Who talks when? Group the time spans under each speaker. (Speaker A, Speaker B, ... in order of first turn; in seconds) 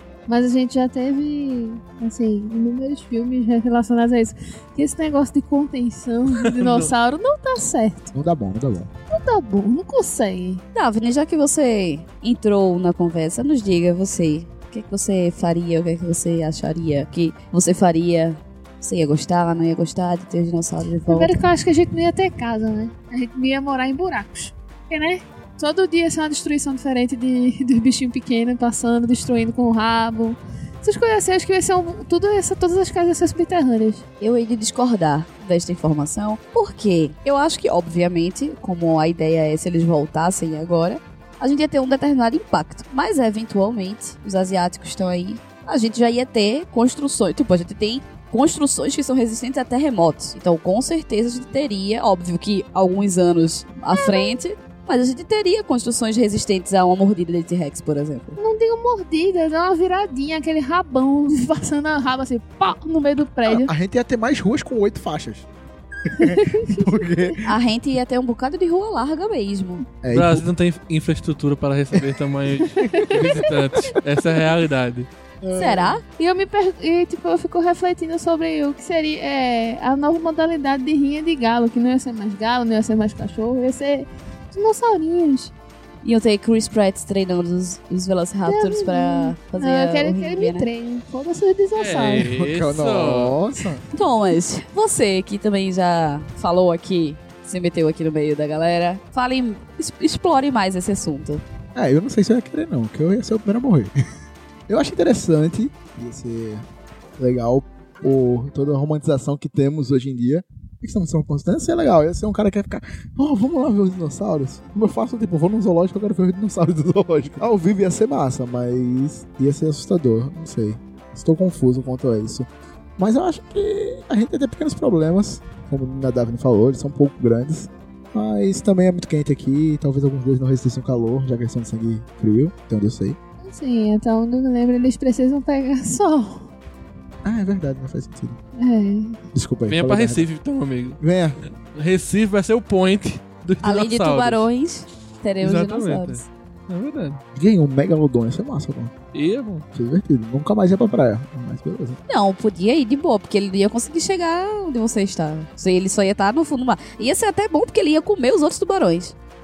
Speaker A: 0.3-8.1, 9.1-10.6, 21.1-34.0, 53.9-54.4, 58.4-63.7, 66.2-66.9, 76.2-85.5, 88.5-92.3, 133.4-136.5, 138.6-139.2
Speaker B: 6.3-6.9, 70.1-75.1, 91.7-93.4, 139.7-141.0, 141.7-144.4, 145.4-147.2, 149.1-149.6
Speaker C: 8.1-8.9, 63.5-65.5, 66.1-67.5, 70.0-70.5, 72.8-74.0, 75.4-76.0, 92.2-93.8, 101.7-103.9, 104.7-106.6, 107.2-122.5, 123.0-133.2, 137.2-138.4, 139.3-140.3, 141.0-141.4, 147.3-148.9, 149.7-152.0
Speaker D: 10.7-21.4, 34.2-58.4, 67.4-69.9, 75.5-76.0, 86.0-90.7, 93.9-101.4, 143.6-146.2, 152.1-159.1